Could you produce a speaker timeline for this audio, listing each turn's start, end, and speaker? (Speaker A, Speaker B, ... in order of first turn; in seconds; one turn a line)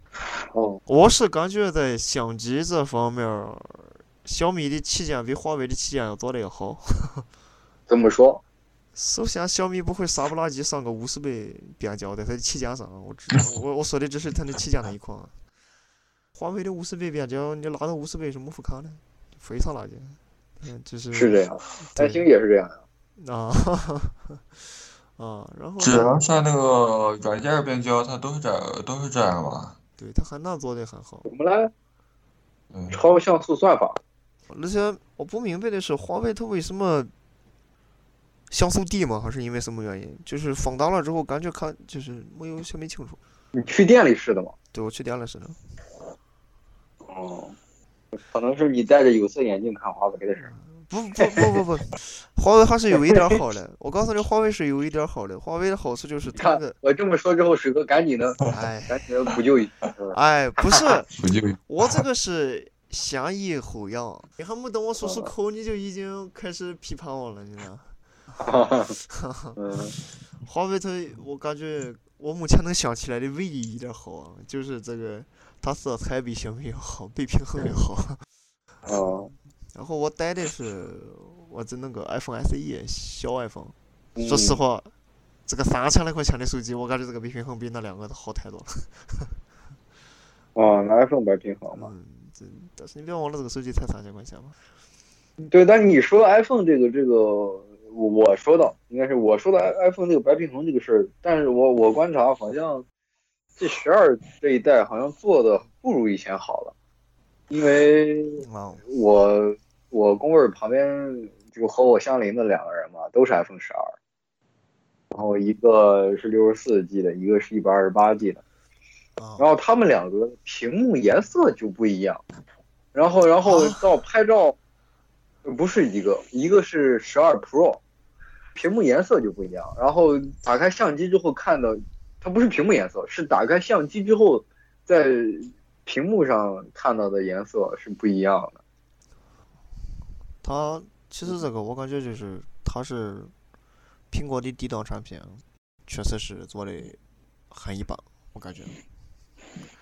Speaker A: 0.5-0.8
Speaker B: 0.9-7.2
Speaker A: 7.9-8.4
Speaker B: 8.9-15.3
Speaker B: 16.3-22.2
Speaker A: 21.1-22.8
Speaker B: 23.2-26.1
Speaker C: 25.8-29.8
Speaker B: 30.0-31.3
Speaker A: 31.2-31.7
Speaker A: 32.9-34.0
Speaker B: 34.5-37.1
Speaker B: 38.5-43.2
Speaker A: 43.5-44.5
Speaker B: 44.7-45.6
Speaker A: 47.0-47.5
Speaker A: 48.1-50.5
Speaker B: 50.4-56.8
Speaker A: 52.9-53.2
Speaker A: 56.4-60.1
Speaker B: 58.5-59.0
Speaker B: 60.1-61.1
Speaker C: 61.1-61.6
Speaker B: 61.7-68.4
Speaker A: 65.0-65.3
Speaker A: 68.4-69.0
Speaker B: 69.1-69.6
Speaker A: 69.6-69.9
Speaker B: 70.4-78.2
Speaker A: 78.8-79.3
Speaker B: 79.7-83.7
Speaker A: 84.2-84.6
Speaker B: 84.2-84.9
Speaker B: 85.5-89.4
Speaker A: 90.5-91.9
Speaker B: 91.7-94.6
Speaker A: 95.4-102.8
Speaker A: 103.6-106.7
Speaker A: 107.5-113.9
Speaker B: 108.4-108.9
Speaker A: 115.1-118.4
Speaker B: 119.2-119.5
Speaker A: 119.4-122.2
Speaker A: 122.9-124.6
Speaker B: 123.4-123.9
Speaker A: 125.4-127.8
Speaker A: 128.5-138.6
Speaker B: 140.4-143.3
Speaker B: 144.1-147.0
Speaker B: 147.5-148.8